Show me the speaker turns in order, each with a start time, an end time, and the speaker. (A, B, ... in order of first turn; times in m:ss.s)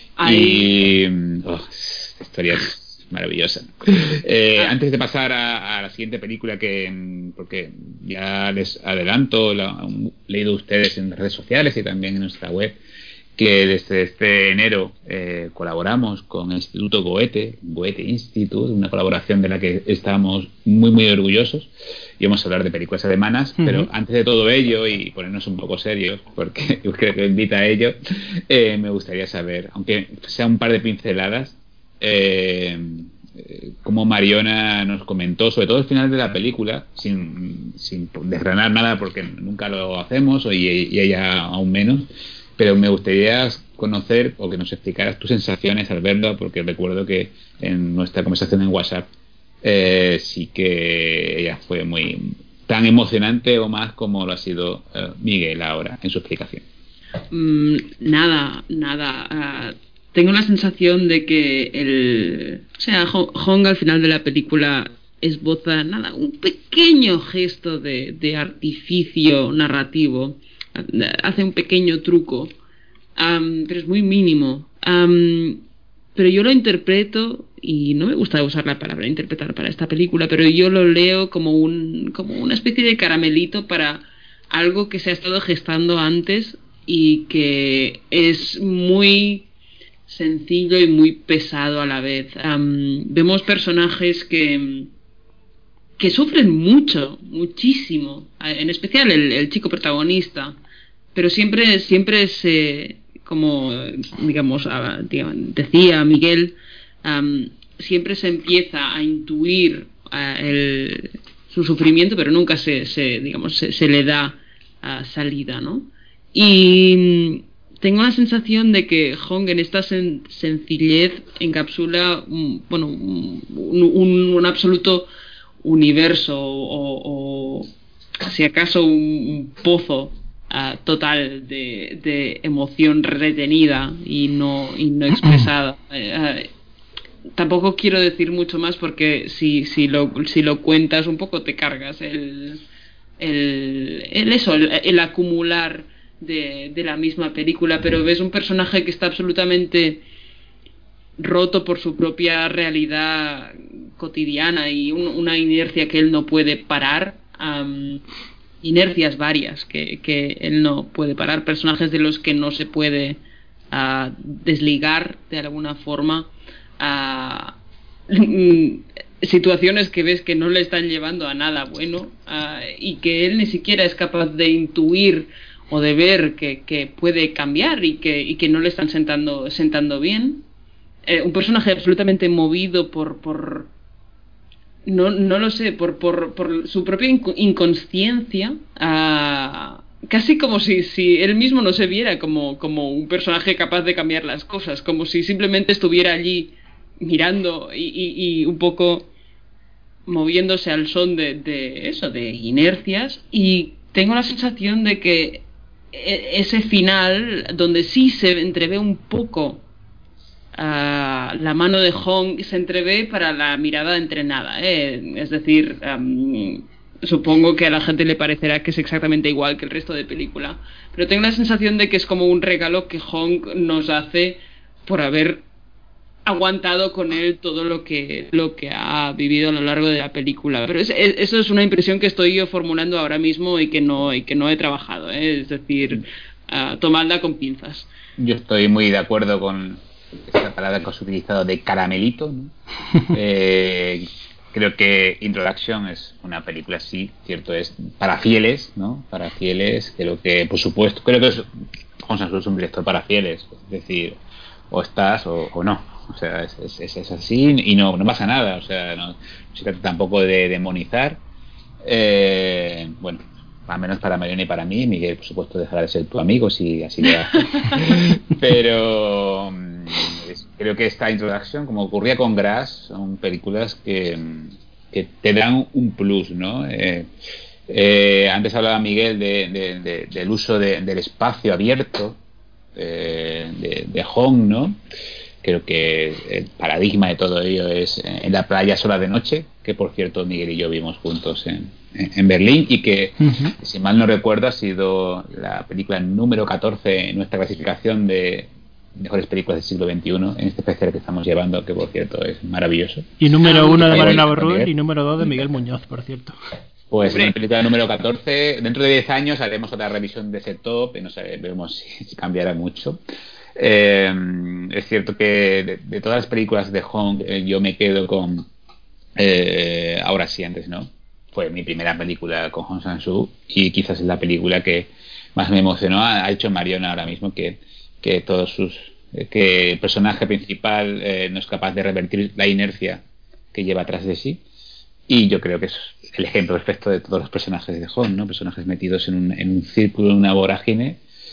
0:00.2-0:00.8 A
0:00.2-0:12.8 B
0:13.4-0:27.9 B
0:23.6-0:23.9 C
0:28.5-0:42.1 B
0:42.6-0:49.0 B
0:49.6-0:56.6 B
0:57.3-1:12.5 A
1:13.2-1:15.6 A
1:16.1-1:29.5 A
1:30.1-1:34.9 A
1:36.0-1:40.6 A
1:41.1-2:05.1 A
2:05.6-2:07.7 A
2:08.2-2:16.5 A
2:17.4-2:22.6 A
2:23.2-2:30.0 A
2:31.2-2:38.0 A
2:38.6-2:43.2 A
2:43.7-2:47.6 A
2:48.1-3:00.4 A
3:01.0-3:03.7 A
3:04.8-3:19.1 A
3:20.1-3:29.6 A
3:30.6-3:45.4 A
3:46.2-3:57.9 A
3:58.2-4:02.5 B
4:03.1-4:11.5 B
4:12.0-4:14.2 B
4:14.7-4:21.2 B
4:21.8-4:37.1 B
4:27.5-4:27.8 A
4:37.7-4:42.2 B
4:42.8-4:44.8 B
4:45.4-5:04.7 B
4:53.2-4:53.5 C
5:03.2-5:06.4 C
5:03.4-5:04.2 A
5:06.9-5:13.0 B
5:07.0-5:07.3 A
5:13.6-5:18.5 B
5:19.2-5:33.0 B
5:33.5-5:34.4 B
5:35.1-5:41.0 B